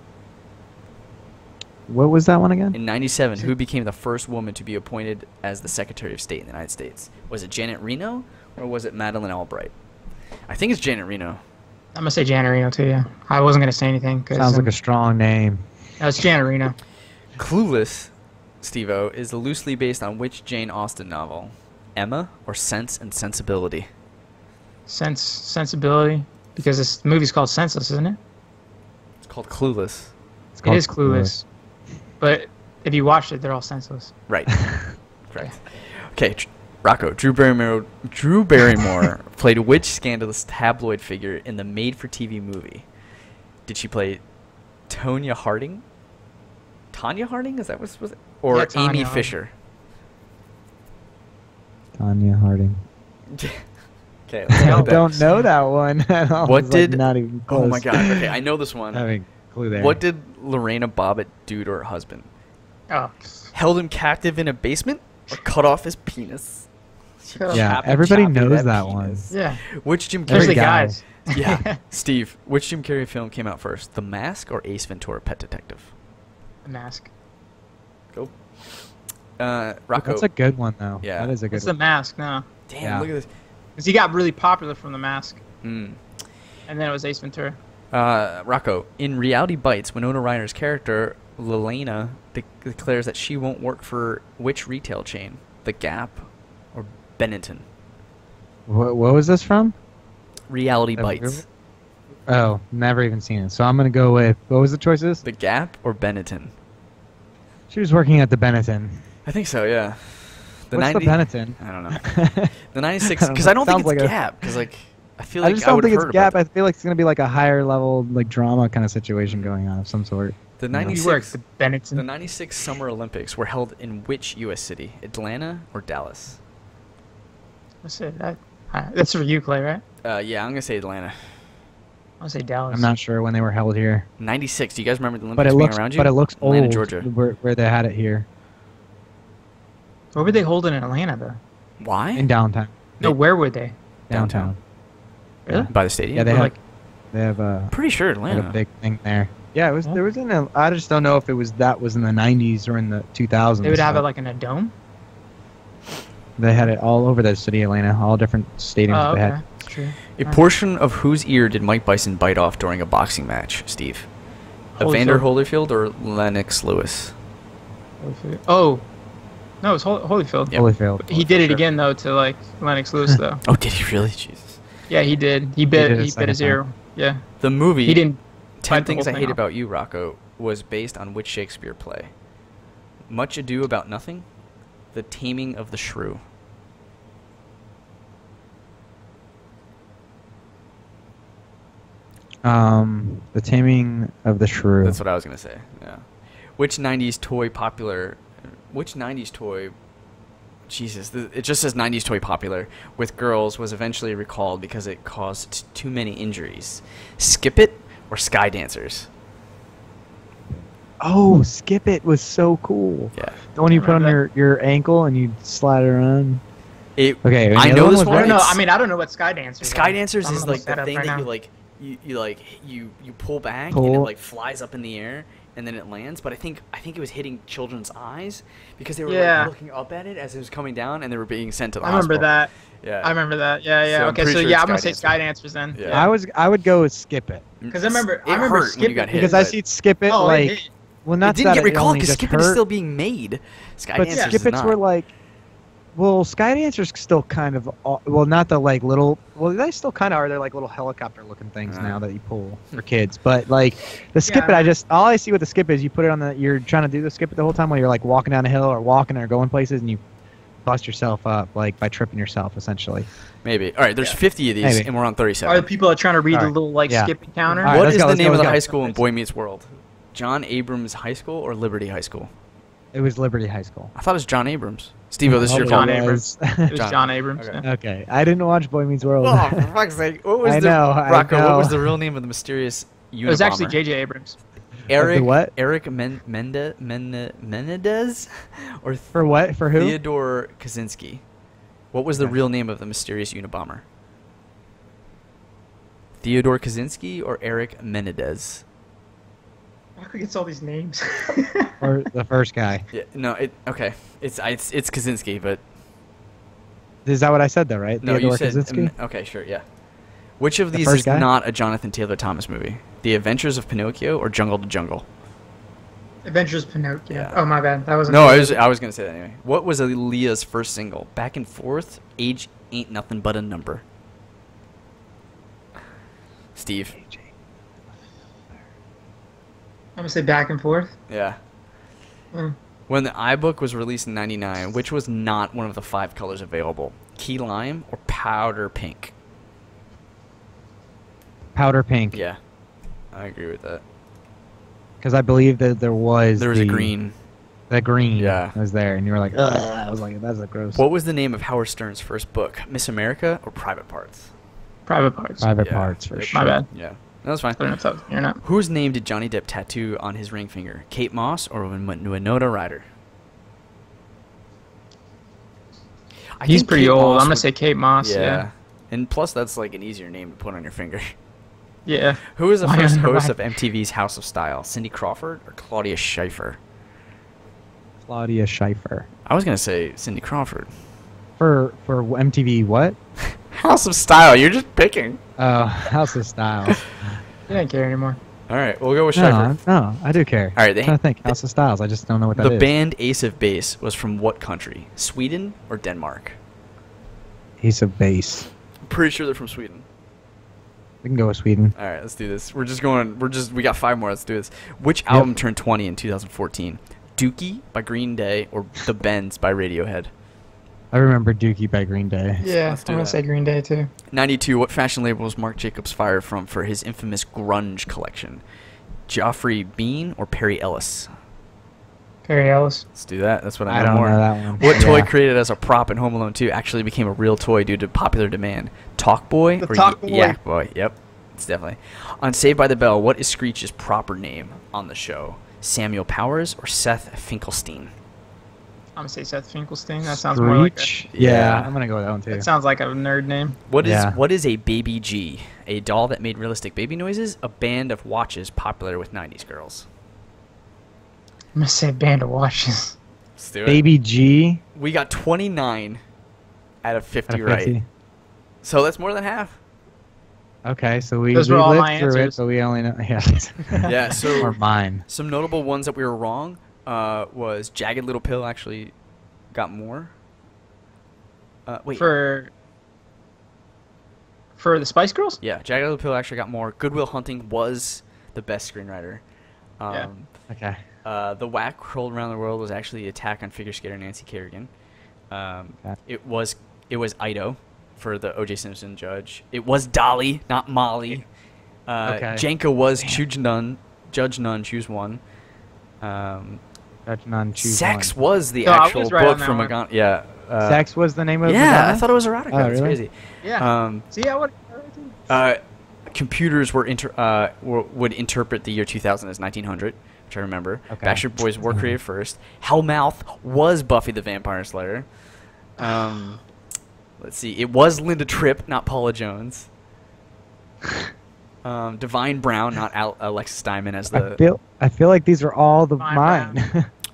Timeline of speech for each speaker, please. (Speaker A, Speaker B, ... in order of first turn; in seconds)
Speaker A: 1.9-2.8, 14.3-15.7, 30.6-31.4, 34.6-34.9, 52.0-52.8, 54.5-58.3, 58.9-60.0, 67.5-69.2, 70.3-71.0, 80.0-81.7, 82.8-83.1, 98.7-99.7, 101.0-101.4, 102.3-105.2, 107.7-109.0, 110.7-112.5, 113.2-114.5, 115.4-121.0, 132.7-134.1, 135.4-138.2, 142.1-142.9, 144.1-144.6, 145.5-146.5, 147.1-147.7, 148.3-154.0, 156.4-159.3, 170.5-171.6, 175.7-176.6, 192.4-195.0, 211.0-216.4, 217.2-218.4, 223.7-224.1, 235.9-237.4, 239.1-242.6, 243.9-245.1, 245.9-260.0, 260.6-263.1, 264.6-264.9, 266.3-268.6, 272.9-273.9, 275.2-276.7, 277.6-279.7, 280.4-281.9, 284.9-285.5, 289.1-290.0, 301.8-302.8, 307.0-308.9, 310.7-311.2, 327.0-327.2, 341.5-342.2, 345.0-346.9, 347.7-350.8, 355.4-356.5, 378.0-379.1, 381.4-382.9, 385.4-387.2, 389.1-392.7, 397.6-398.5, 401.0-401.7, 405.1-405.4, 410.9-412.4, 423.7-425.1, 440.1-442.5, 443.8-444.2, 453.6-454.6, 457.3-457.8, 460.6-465.0, 480.5-480.8, 492.0-492.4, 497.1-498.1, 500.6-503.0, 510.9-511.9, 524.1-526.9
Speaker B: 2.7-9.7, 10.5-11.4, 17.4-23.9, 29.2-30.1, 34.3-34.6, 35.3-42.9, 43.6-44.2, 44.9-45.8, 46.9-49.5, 53.3-53.6, 54.3-55.2, 56.4-59.0, 59.7-62.3, 63.5-66.7, 67.2-70.7, 71.2-75.9, 78.1-80.3, 81.0-81.3, 82.7-83.3, 85.6-86.0, 87.9-97.6, 100.5-101.4, 105.2-106.5, 109.2-112.2, 112.7-116.4, 119.2-119.5, 120.6-121.4, 121.9-126.4, 130.0-131.4, 134.2-137.1, 141.8-142.3, 144.1-144.5, 145.7-146.5, 147.7-148.6, 160.2-164.1, 164.8-167.1, 173.4-174.6, 177.4-178.0, 178.6-182.1, 183.1-184.2, 184.9-186.2, 194.8-196.0, 196.6-199.7, 200.7-209.1, 217.0-218.6, 219.6-232.3, 232.8-233.1, 233.8-235.2, 235.7-236.1, 237.6-239.6, 241.2-244.8, 251.7-252.0, 263.4-265.7, 267.6-272.3, 273.9-275.9, 276.7-277.6, 279.2-283.8, 284.9-289.1, 289.7-291.2, 291.9-293.8, 296.2-298.6, 302.9-305.6, 308.0-309.6, 310.4-315.0, 317.1-317.4, 318.1-323.8, 326.6-326.9, 331.1-331.4, 332.9-339.1, 342.1-342.4, 343.1-343.8, 346.4-347.1, 348.1-348.5, 350.7-354.3, 355.6-357.7, 358.4-362.8, 366.4-367.5, 368.0-371.1, 372.3-376.6, 379.2-380.7, 383.3-385.2, 388.5-389.6, 390.6-391.3, 392.3-396.4, 398.8-399.8, 401.8-410.1, 412.7-413.2, 414.1-418.4, 419.1-421.1, 422.9-437.9, 441.1-441.7, 443.7-449.9, 453.4-453.8, 454.7-456.0, 456.8-457.7, 458.6-459.6, 463.9-464.6, 465.1-468.9, 469.5-470.1, 471.6-472.1, 475.4-479.2, 479.8-480.3, 481.0-484.7, 485.3-491.2, 491.9-495.2, 496.0-496.6, 497.6-500.8, 501.4-504.1, 505.3-515.0, 515.8-516.4, 517.2-519.7, 521.6-524.4
Speaker C: 11.9-14.7, 16.0-16.7, 24.9-28.2, 30.6-31.4, 32.2-34.1, 48.5-49.3, 54.5-55.5, 62.9-63.5, 67.3-67.7, 69.3-69.6, 70.3-71.8, 76.6-77.1, 81.5-82.5, 83.8-85.4, 86.7-87.6, 120.9-122.1, 127.8-129.8, 132.2-132.9, 140.1-141.4, 143.0-143.7, 145.4-145.7, 146.3-146.6, 153.6-154.7, 158.9-160.4, 164.8-165.2, 168.0-168.9, 169.6-173.4, 174.9-177.3, 177.8-179.4, 213.7-214.2, 218.1-221.3, 229.1-229.5, 231.8-232.5, 233.0-236.1, 237.7-239.5, 240.1-240.7, 244.1-244.4, 254.2-254.7, 265.4-267.8, 268.3-269.0, 275.6-277.6, 283.2-284.4, 300.0-301.9, 316.2-318.6, 329.9-330.9, 354.9-355.5, 356.3-356.7, 357.6-358.4, 366.4-368.4, 371.9-373.4, 387.5-388.2, 412.4-413.9, 422.2-422.8, 429.6-430.4, 438.9-440.9, 442.3-443.6, 451.6-453.0, 461.3-462.4, 471.9-472.5, 474.6-475.4, 498.6-499.7, 503.4-505.2, 526.0-526.6